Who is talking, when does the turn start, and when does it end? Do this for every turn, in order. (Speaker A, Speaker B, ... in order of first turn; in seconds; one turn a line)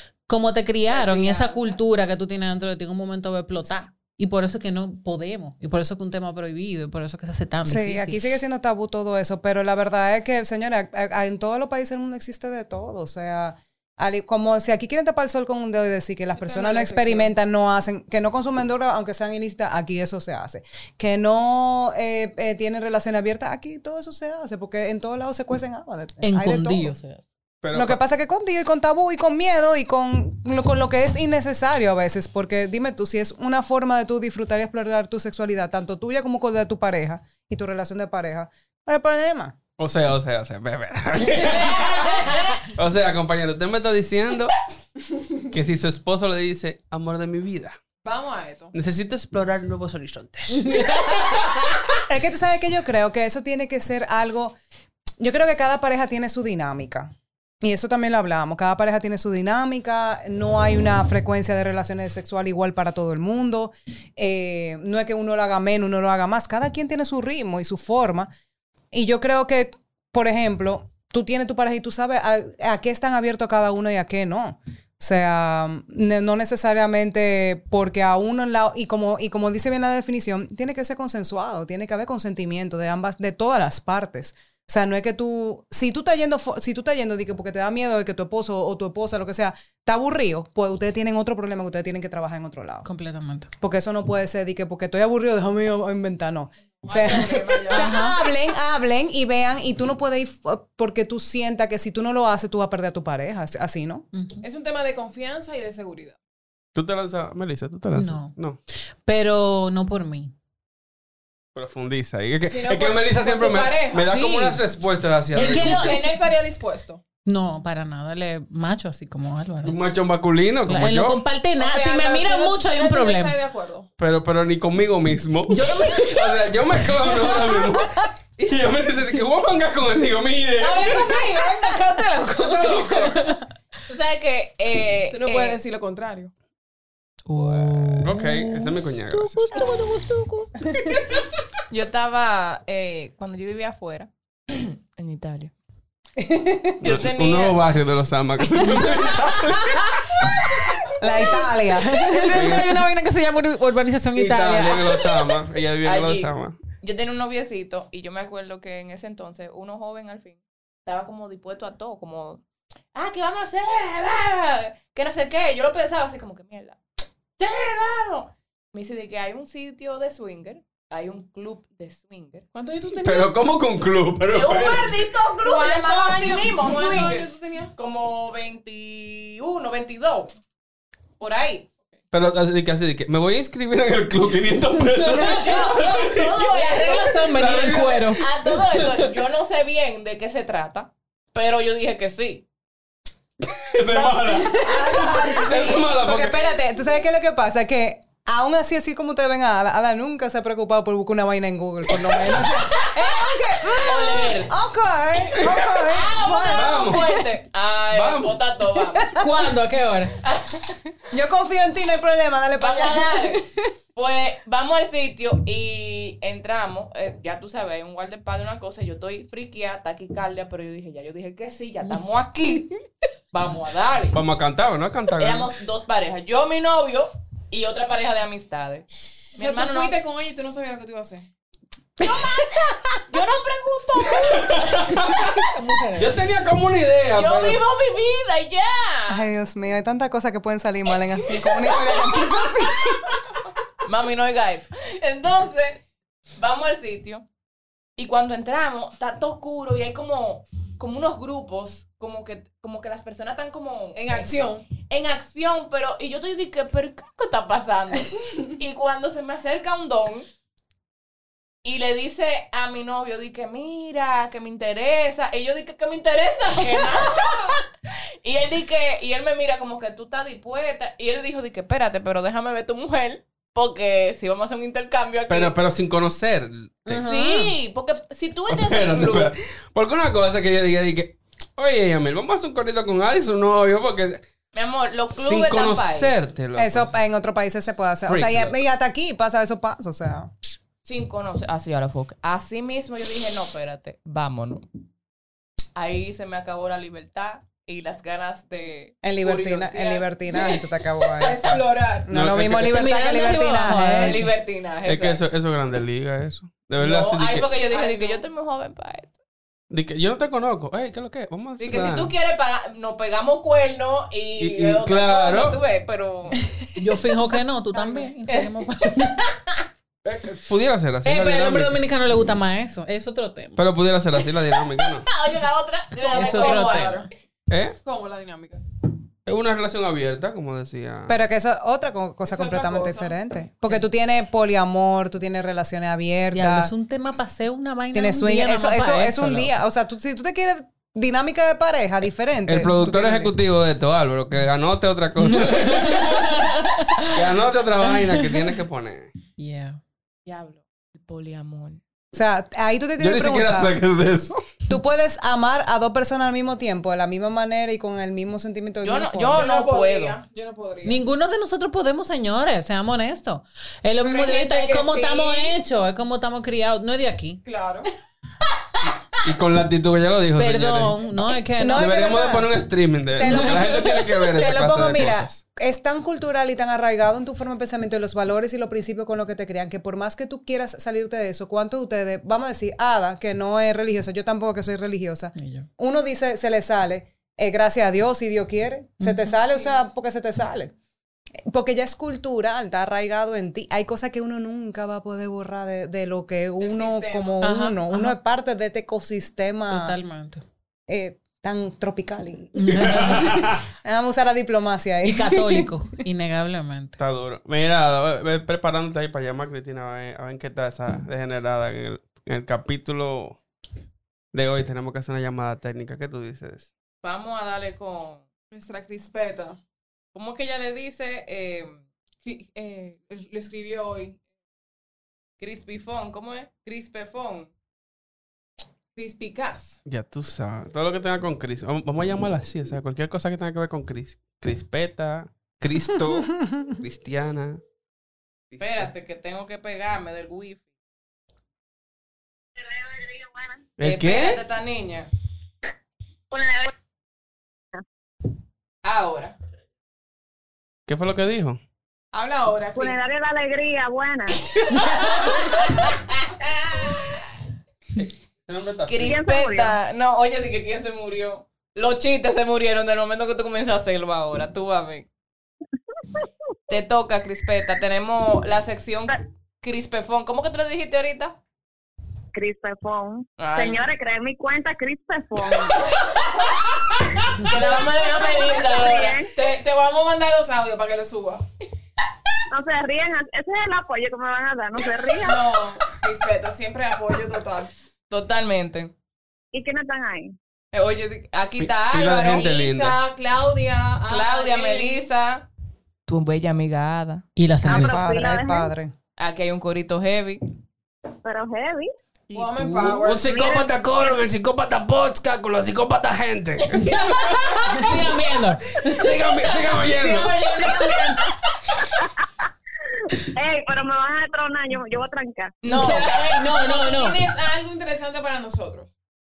Speaker A: 0.3-8.2
Speaker B: 0.9-1.8
Speaker C: 7.6-26.9
Speaker B: 16.4-17.3
Speaker A: 26.2-27.2
Speaker D: 27.6-28.0
Speaker C: 27.7-39.5
Speaker D: 39.8-44.5
Speaker D: 45.5-47.8
Speaker B: 48.0-48.7
Speaker D: 48.7-51.4
Speaker A: 50.5-51.7
Speaker C: 52.0-54.5
Speaker C: 55.2-68.3
Speaker C: 68.9-92.8
Speaker A: 92.8-93.5
Speaker C: 93.6-104.0
Speaker B: 96.8-98.0
Speaker A: 97.7-98.2
Speaker A: 104.1-104.4
Speaker B: 104.4-106.2
Speaker D: 106.7-108.6
Speaker A: 107.9-108.3
Speaker A: 109.0-110.3
Speaker D: 111.5-116.0
Speaker B: 112.5-114.2
Speaker A: 114.0-114.6
Speaker A: 115.3-116.0
Speaker B: 115.5-117.0
Speaker A: 117.2-119.8
Speaker D: 119.6-121.2
Speaker A: 120.7-123.3
Speaker B: 121.5-123.9
Speaker D: 124.0-131.5
Speaker A: 125.5-126.4
Speaker C: 127.8-128.0
Speaker B: 130.6-133.1
Speaker C: 130.9-132.4
Speaker D: 132.4-133.1
Speaker A: 132.6-133.4
Speaker E: 133.9-135.6
Speaker B: 135.1-136.3
Speaker A: 137.3-140.6
Speaker D: 137.9-139.7
Speaker E: 141.7-145.5
Speaker C: 146.2-146.8
Speaker E: 146.8-147.6
Speaker D: 146.8-150.3
Speaker C: 151.0-152.6
Speaker A: 152.1-155.1
Speaker D: 152.3-152.8
Speaker D: 154.2-156.6
Speaker E: 155.8-162.4
Speaker E: 162.9-166.8
Speaker E: 167.4-172.4
Speaker B: 172.5-173.3
Speaker D: 172.9-175.0
Speaker E: 174.3-180.3
Speaker B: 175.4-177.7
Speaker E: 181.2-181.7
Speaker D: 182.1-189.1
Speaker E: 185.1-187.4
Speaker A: 186.8-188.2
Speaker E: 188.2-192.4
Speaker D: 193.4-196.5
Speaker E: 193.9-195.0
Speaker C: 194.6-207.2
Speaker E: 203.8-204.5
Speaker D: 205.3-205.8
Speaker E: 205.5-209.2
Speaker D: 206.5-207.1
Speaker D: 207.9-208.4
Speaker C: 208.9-209.3
Speaker A: 209.2-210.1
Speaker E: 210.2-210.8
Speaker C: 211.1-213.4
Speaker E: 212.5-222.7
Speaker E: 223.3-224.2
Speaker D: 224.1-225.5
Speaker E: 225.2-230.0
Speaker B: 229.3-231.3
Speaker C: 232.0-233.0
Speaker E: 232.0-235.2
Speaker D: 234.1-237.6
Speaker A: 235.5-236.2
Speaker E: 237.1-239.2
Speaker C: 239.1-243.2
Speaker E: 241.4-242.4
Speaker E: 243.8-245.8
Speaker E: 246.4-247.2
Speaker E: 248.0-260.2
Speaker B: 253.9-254.7
Speaker E: 261.6-267.7
Speaker E: 268.2-275.5
Speaker D: 275.3-277.1
Speaker A: 276.9-277.5
Speaker E: 277.0-279.3
Speaker D: 278.5-284.2
Speaker E: 284.5-286.2
Speaker D: 285.2-286.9
Speaker C: 286.5-290.3
Speaker D: 288.0-288.6
Speaker E: 290.8-294.6
Speaker E: 295.8-300.6
Speaker C: 299.0-304.2
Speaker B: 301.1-302.1
Speaker D: 302.1-302.9
Speaker A: 302.6-304.3
Speaker E: 303.9-305.2
Speaker D: 304.8-307.5
Speaker E: 306.8-309.2
Speaker B: 307.7-308.2
Speaker D: 309.7-312.1
Speaker E: 311.6-316.4
Speaker D: 314.4-315.6
Speaker A: 316.8-319.2
Speaker B: 317.8-318.1
Speaker E: 318.3-319.2
Speaker D: 320.0-321.8
Speaker A: 321.0-323.6
Speaker D: 323.6-325.1
Speaker E: 324.7-327.1
Speaker B: 326.0-327.1
Speaker A: 326.1-327.0
Speaker D: 327.5-327.8
Speaker B: 327.8-328.6
Speaker D: 329.2-331.2
Speaker C: 331.1-336.7
Speaker B: 332.2-333.2
Speaker A: 336.3-339.5
Speaker C: 337.9-343.3
Speaker D: 342.5-346.5
Speaker A: 345.2-347.1
Speaker D: 347.1-349.1
Speaker A: 348.0-348.4
Speaker A: 349.4-349.8
Speaker E: 350.2-351.8
Speaker C: 352.1-353.8
Speaker D: 353.0-354.4
Speaker C: 354.7-359.5
Speaker E: 358.8-360.2
Speaker B: 359.3-361.0
Speaker A: 360.8-367.4
Speaker B: 364.0-365.6
Speaker B: 367.4-367.9
Speaker D: 369.2-371.0
Speaker A: 370.4-371.9
Speaker C: 371.6-372.5
Speaker D: 371.7-375.4
Speaker C: 373.1-390.7
Speaker A: 385.4-385.7
Speaker A: 389.0-389.3
Speaker B: 389.4-389.7
Speaker C: 391.4-400.0
Speaker B: 396.6-397.4
Speaker A: 397.4-398.1
Speaker A: 399.7-400.4
Speaker C: 400.9-405.7
Speaker A: 402.6-403.3
Speaker D: 402.8-403.6
Speaker A: 405.0-407.0
Speaker D: 407.0-413.4
Speaker D: 414.3-416.7
Speaker E: 417.0-418.2
Speaker B: 418.5-419.6
Speaker E: 420.1-421.8
Speaker B: 422.2-424.2
Speaker E: 425.4-427.5
Speaker B: 428.9-429.8
Speaker D: 429.9-437.6
Speaker C: 436.0-436.7
Speaker D: 438.5-438.9
Speaker E: 438.6-440.6
Speaker F: 442.9-443.4
Speaker D: 443.8-444.4
Speaker E: 443.8-445.1
Speaker F: 446.3-446.7
Speaker E: 448.8-449.4
Speaker D: 450.9-451.6
Speaker B: 452.1-453.0
Speaker F: 452.7-454.4
Speaker E: 454.7-457.2
Speaker D: 458.0-459.1
Speaker E: 458.9-465.1
Speaker F: 459.0-459.8
Speaker E: 466.7-471.4
Speaker F: 472.3-475.8
Speaker E: 473.4-473.9
Speaker E: 475.5-479.2
Speaker B: 477.5-478.6
Speaker F: 478.6-479.3
Speaker B: 479.3-481.4
Speaker F: 482.5-485.6
Speaker B: 485.2-487.7
Speaker E: 488.1-488.9
Speaker F: 489.5-490.3
Speaker E: 490.7-492.5
Speaker D: 491.6-493.0
Speaker B: 492.2-495.1
Speaker E: 494.1-495.5
Speaker E: 496.1-497.3
Speaker A: 497.4-498.1
Speaker F: 497.6-498.7
Speaker C: 497.7-498.9
Speaker E: 499.2-500.4
Speaker F: 501.2-501.9
Speaker B: 502.3-503.5
Speaker D: 502.6-508.1
Speaker F: 503.1-503.7
Speaker A: 507.7-509.1
Speaker D: 508.8-510.9
Speaker B: 509.8-511.2
Speaker E: 510.1-511.0
Speaker F: 513.2-515.5
Speaker E: 515.6-516.5
Speaker A: 515.7-517.2
Speaker B: 515.7-518.9